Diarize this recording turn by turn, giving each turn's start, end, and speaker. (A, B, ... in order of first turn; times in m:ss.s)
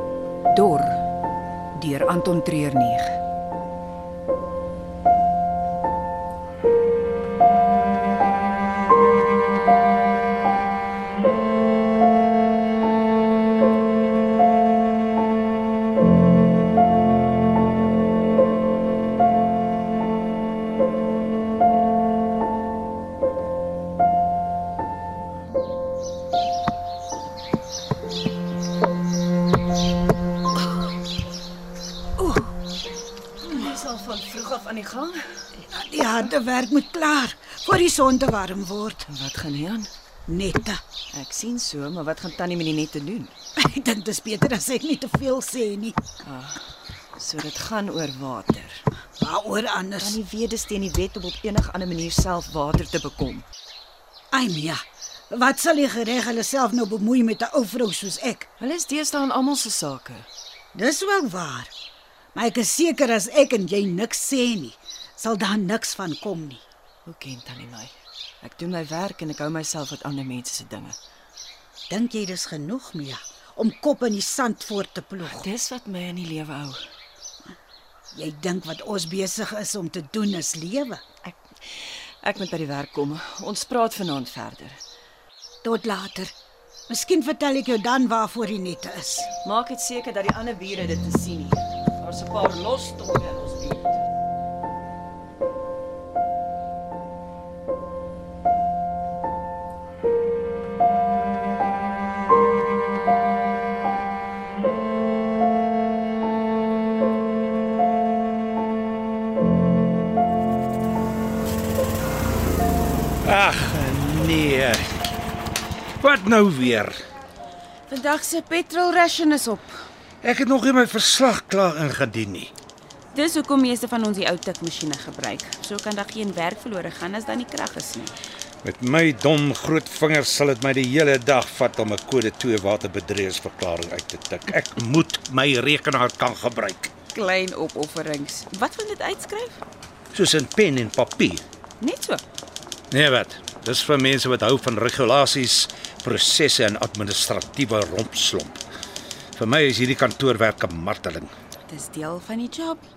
0:00.5-0:01.0 A
0:01.8-0:03.2 A
0:32.2-0:32.4 B
0:33.4-0:35.2 A
0:35.7-0:39.0 B
0:39.0-0:39.9 A
0:40.3-0:40.8 B
0:41.1-0:43.3 A
0:43.6-0:46.0 B
0:46.2-0:46.6 A
0:47.2-0:48.8 A
0:49.2-0:50.2 B
0:50.0-0:53.4 A
0:54.3-0:58.5 B
0:58.6-1:00.3 A
1:00.7-1:01.7 B
1:02.3-1:06.6 B
1:07.0-1:11.0 A
1:11.9-1:15.5 B
1:15.2-1:16.8 A
1:18.1-1:21.0 B
1:22.2-1:24.8 A
1:25.6-1:26.3 B
1:26.9-1:29.3 B
1:29.4-1:34.0 A
1:53.2-1:54.8 C
1:56.0-1:57.0 C
1:57.9-1:59.8 D
2:00.2-2:02.5 C
2:03.1-2:08.1 D
2:08.6-2:16.9 C
2:17.1-2:19.6 D
2:20.1-2:21.4 C
2:21.8-2:22.2 D
2:22.9-2:28.6 C
2:29.3-2:31.3 C
2:31.6-2:32.8 D